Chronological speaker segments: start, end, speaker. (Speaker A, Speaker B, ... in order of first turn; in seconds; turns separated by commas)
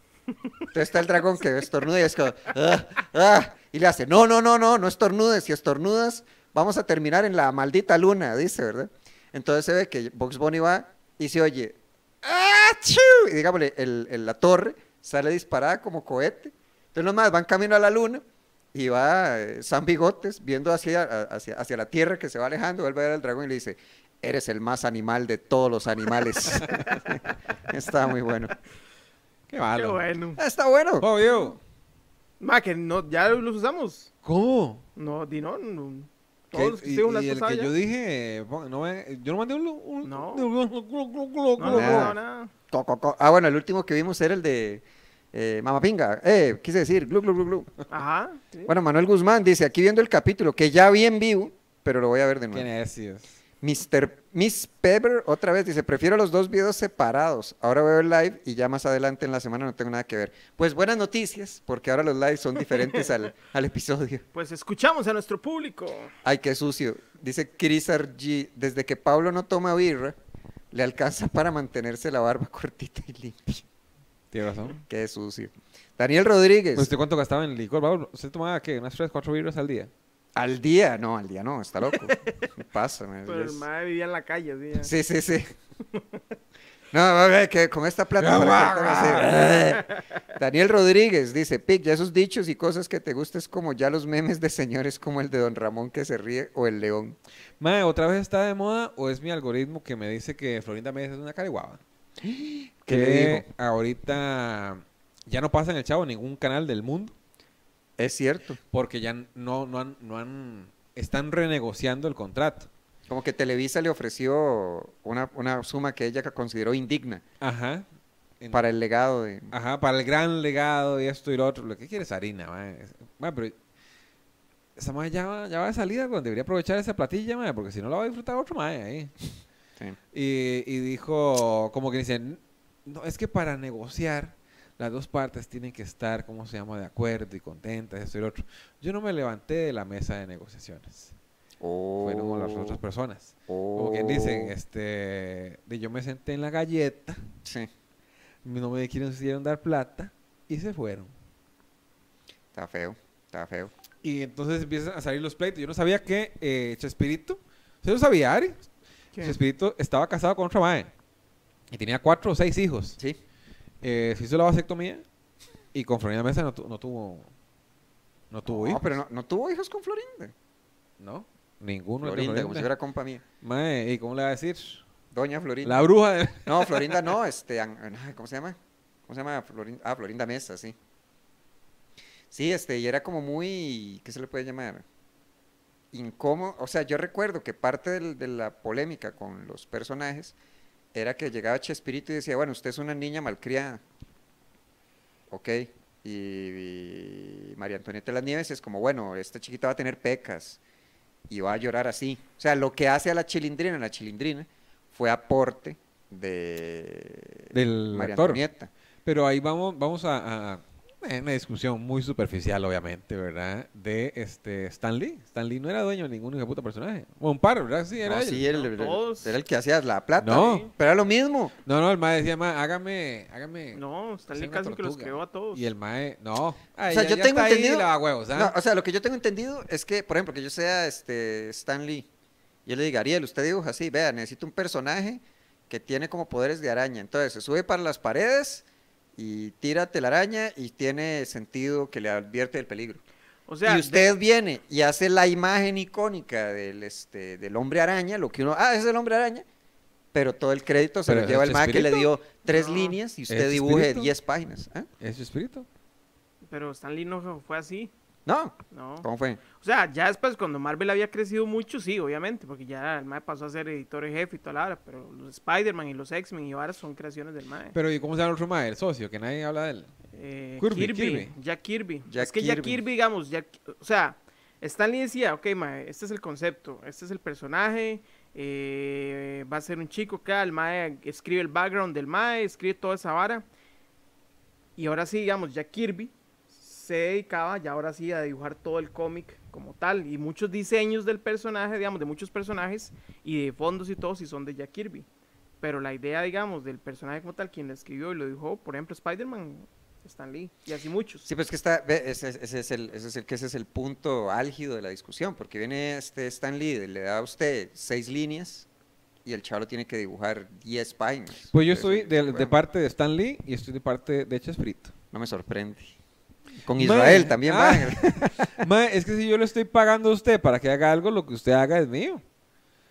Speaker A: 0.7-28.5, Speaker B: 29.5-30.0, Speaker C: 29.8-30.4, Speaker A: 30.4-31.1, Speaker B: 31.0-31.6, Speaker C: 32.4-34.1, Speaker B: 34.2-34.9, Speaker C: 35.0-37.7, Speaker B: 36.5-42.1, Speaker C: 40.0-40.5, Speaker C: 41.6-42.5, Speaker A: 41.7-42.1, Speaker A: 42.7-47.7, Speaker C: 47.9-48.7, Speaker A: 48.6-52.7, Speaker B: 52.5-53.4, Speaker A: 53.6-64.2, Speaker C: 64.3-66.1, Speaker A: 66.2-70.2, Speaker A: 70.7-73.6, Speaker B: 74.3-74.8, Speaker A: 74.9-76.9, Speaker B: 76.8-79.9, Speaker A: 80.4-83.7, Speaker C: 81.9-82.5, Speaker C: 83.2-84.9, Speaker A: 84.8-85.5, Speaker A: 86.9-97.2, Speaker B: 88.2-89.7, Speaker B: 97.6-101.8, Speaker A: 102.2-103.5, Speaker B: 102.9-107.1, Speaker A: 108.0-108.6, Speaker B: 108.7-112.7, Speaker A: 113.1-117.2, Speaker B: 117.4-117.8, Speaker A: 118.5-119.5, Speaker B: 119.5-123.5, Speaker B: 124.8-129.1, Speaker B: 130.1-141.1, Speaker A: 141.6-142.8, Speaker B: 142.0-147.2, Speaker A: 143.5-144.5, Speaker A: 147.4-147.7, Speaker B: 148.4-151.1, Speaker A: 152.5-153.7, Speaker B: 154.0-158.6, Speaker B: 159.2-160.9, Speaker B: 161.7-163.0, Speaker B: 163.8-165.0, Speaker B: 165.7-167.3, Speaker B: 168.3-168.8, Speaker A: 168.4-170.3, Speaker B: 171.0-172.7, Speaker A: 172.0-173.2, Speaker B: 173.4-174.8, Speaker A: 175.1-175.9, Speaker B: 175.6-177.1, Speaker A: 176.5-178.6, Speaker A: 179.1-180.8, Speaker A: 182.3-184.8, Speaker A: 185.9-190.3, Speaker A: 190.9-193.8, Speaker A: 195.3-200.6, Speaker A: 201.3-208.7, Speaker B: 207.5-208.4, Speaker B: 209.1-218.4, Speaker A: 218.1-221.6, Speaker C: 218.5-219.4, Speaker B: 220.2-220.7, Speaker B: 221.6-228.6, Speaker C: 223.7-225.7, Speaker A: 226.9-232.1, Speaker A: 232.7-238.6, Speaker A: 239.2-243.0, Speaker C: 243.5-244.1, Speaker A: 243.6-249.4, Speaker A: 250.1-254.9, Speaker B: 251.1-252.1, Speaker C: 252.5-252.9, Speaker B: 253.3-254.1, Speaker B: 255.0-255.7, Speaker C: 256.5-257.9, Speaker A: 258.2-259.4, Speaker C: 258.7-267.8, Speaker B: 267.8-269.9, Speaker C: 270.1-283.5, Speaker B: 270.6-271.3, Speaker A: 272.1-272.8, Speaker C: 284.8-295.1, Speaker C: 295.6-301.3, Speaker A: 301.2-308.7, Speaker A: 309.2-312.6, Speaker B: 311.5-314.9, Speaker A: 315.1-315.9, Speaker A: 316.6-318.7, Speaker B: 316.8-322.2